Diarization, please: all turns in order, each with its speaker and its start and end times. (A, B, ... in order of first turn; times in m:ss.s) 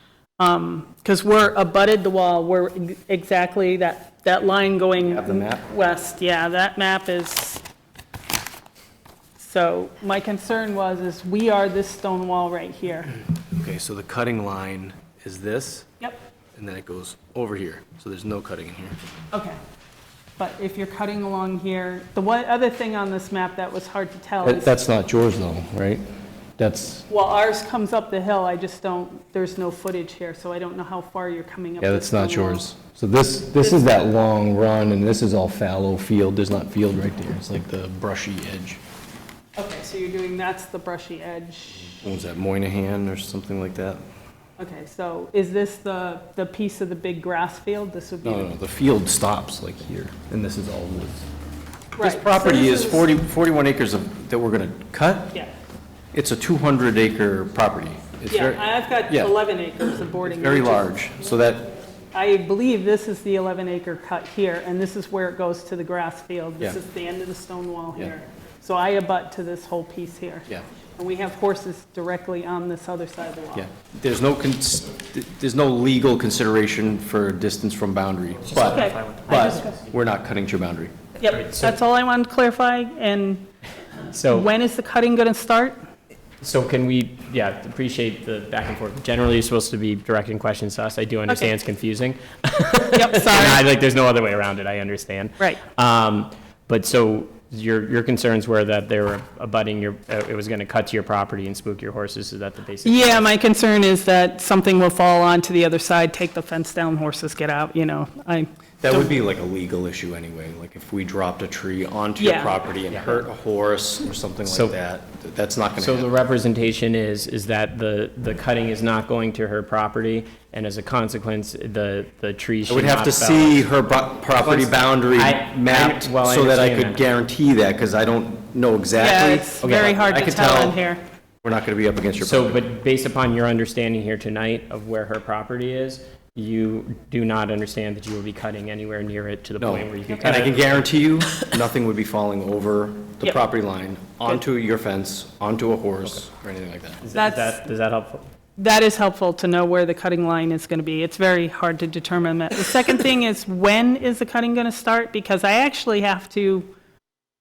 0:00.4-0:07.6 A
0:05.0-0:05.7 B
0:09.4-0:13.1 A
0:13.5-0:15.9 B
0:16.5-0:19.0 B
0:19.3-0:19.6 A
0:20.4-0:24.7 A
0:24.4-0:26.0 B
0:26.6-0:27.0 B
0:27.1-0:32.6 A
0:31.8-0:38.8 B
0:33.6-0:33.9 A
0:39.6-0:42.0 A
0:42.0-0:44.0 B
0:44.6-0:48.5 A
0:48.2-0:51.2 B
0:51.9-0:53.1 A
0:52.0-0:55.4 B
0:56.1-0:59.3 B
0:58.3-1:00.9 A
1:00.3-1:01.7 B
1:02.1-1:13.7 A
1:13.5-1:20.9 B
1:18.5-1:19.2 C
1:18.6-1:19.8 A
1:21.2-1:23.5 A
1:21.3-1:21.7 C
1:24.1-1:24.5 C
1:24.3-1:25.8 A
1:26.4-1:43.2 C
1:32.9-1:33.6 A
1:42.8-1:49.2 A
1:48.8-1:56.1 B
1:52.2-1:52.6 A
1:54.4-1:54.7 C
1:55.8-2:03.6 C
2:02.7-2:10.8 B
2:04.4-2:07.0 C
2:09.0-2:11.0 A
2:09.6-2:10.0 C
2:11.4-2:12.6 B
2:12.2-2:20.8 C
2:19.6-2:27.0 B
2:27.0-2:28.3 C
2:27.1-2:27.6 A
2:28.6-2:36.7 A